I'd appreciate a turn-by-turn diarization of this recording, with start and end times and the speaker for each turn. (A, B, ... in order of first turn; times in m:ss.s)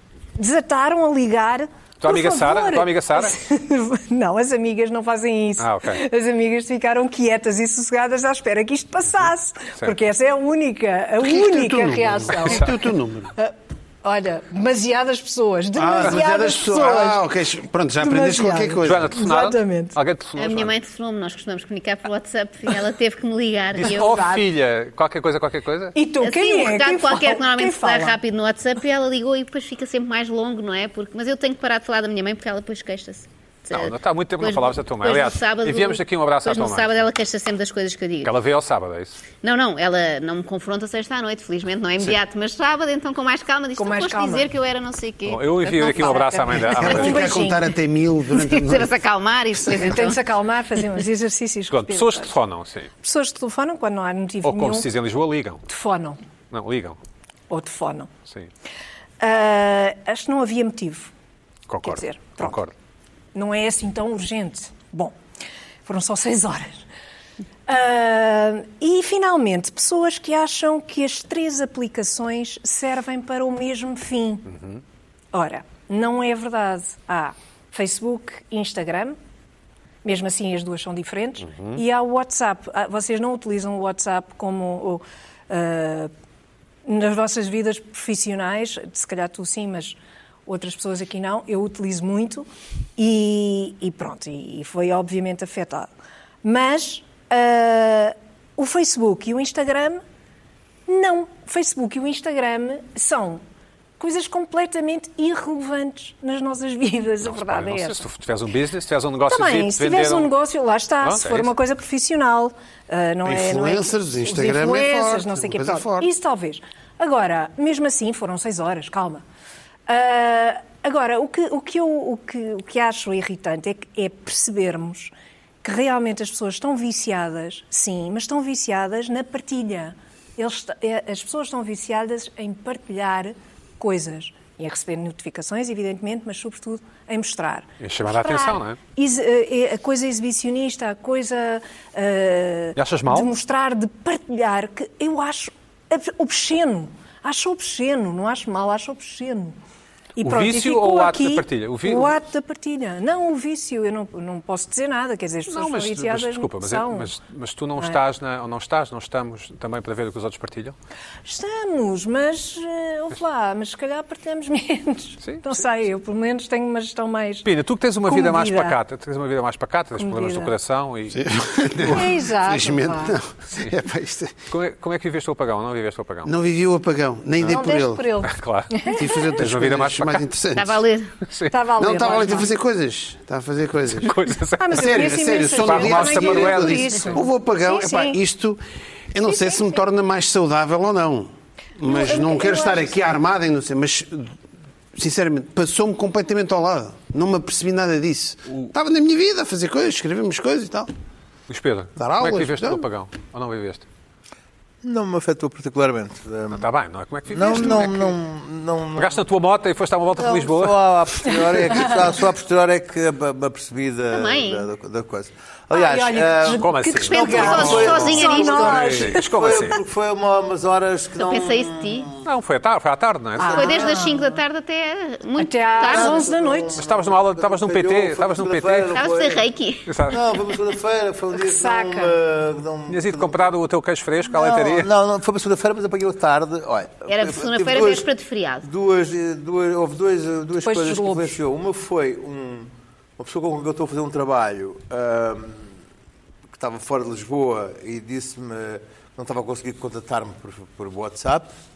0:00.4-0:17.2 A
0:02.0-0:03.4 B
0:05.6-0:06.0 B
0:11.2-0:13.3 C
0:15.8-0:19.1 C
0:18.0-0:20.0 A
0:18.8-0:20.7 B
0:20.4-0:24.1 D
0:23.7-0:26.0 B
0:23.8-0:24.4 A
0:26.0-0:28.2 A
0:26.2-0:38.3 D
0:33.7-0:36.9 B
0:38.2-0:39.2 B
0:39.4-0:46.8 D
0:43.8-0:44.5 A
0:45.3-0:47.4 B
0:46.6-0:49.0 C
0:46.8-0:47.7 A
0:48.3-0:50.2 D
0:49.7-0:52.3 A
0:51.7-0:52.9 B
0:53.0-0:54.9 A
0:54.4-0:55.6 B
0:55.7-0:56.2 A
0:56.5-0:57.0 B
0:57.5-0:58.1 A
0:59.2-1:01.1 A
1:01.7-1:02.7 B
1:01.8-1:02.6 A
1:03.3-1:05.2 A
1:05.9-1:06.8 A
1:07.7-1:14.6 A
1:14.5-1:14.8 B
1:15.3-1:19.2 A
1:20.0-1:26.1 A
1:21.5-1:21.8 B
1:26.8-1:35.9 A
1:36.4-1:40.0 A
1:40.9-1:43.4 A
1:44.0-1:48.0 A
1:47.2-1:50.3 B
1:49.3-1:59.2 A
1:51.0-1:51.5 B
1:53.2-1:56.1 C
1:59.9-2:05.1 A
2:05.6-2:29.6 A
2:17.8-2:18.8 B
2:22.8-2:23.3 B
2:30.2-2:37.1 A
2:30.2-2:32.1 B
2:35.5-2:40.8 B
2:41.2-2:47.5 A
2:47.4-2:52.0 B
2:48.1-2:48.8 A
2:50.0-2:50.5 A
2:51.2-2:54.3 C
2:51.9-2:53.2 A
2:54.5-2:56.3 B
2:56.3-2:58.2 C
2:57.4-2:59.3 A
2:58.2-3:00.3 B
2:58.9-3:00.8 C
3:00.6-3:01.1 D
3:01.3-3:01.6 B
3:01.5-3:02.5 A
3:01.7-3:04.1 C
3:04.0-3:07.2 B
3:04.6-3:08.2 A
3:04.7-3:08.6 C
3:09.1-3:14.4 C
3:09.2-3:09.8 A
3:11.8-3:13.1 A
3:14.9-3:20.9 C
3:21.5-3:23.9 B
3:22.0-3:22.8 C
3:24.8-3:26.6 E
3:26.5-3:28.2 B
3:27.3-3:29.2 E
3:29.0-3:30.8 B
3:30.2-3:42.2 E
3:34.1-3:34.7 D
3:35.7-3:39.2 A
3:36.6-3:39.8 B
3:37.1-3:39.1 D
3:41.2-3:42.1 D
3:42.2-3:43.7 B
3:43.4-3:44.4 A
3:43.4-3:44.0 E
3:43.5-3:46.3 D
3:45.4-3:46.8 A
3:45.9-3:49.5 E
3:46.8-3:48.9 B
3:48.9-3:49.9 D
3:49.9-3:50.2 B
3:50.0-3:53.5 E
3:51.4-3:52.2 A
3:52.9-3:54.9 B
3:54.3-3:58.1 E
3:57.1-3:58.7 D
3:58.6-4:05.8 E
4:00.6-4:01.4 A
4:06.5-4:11.5 E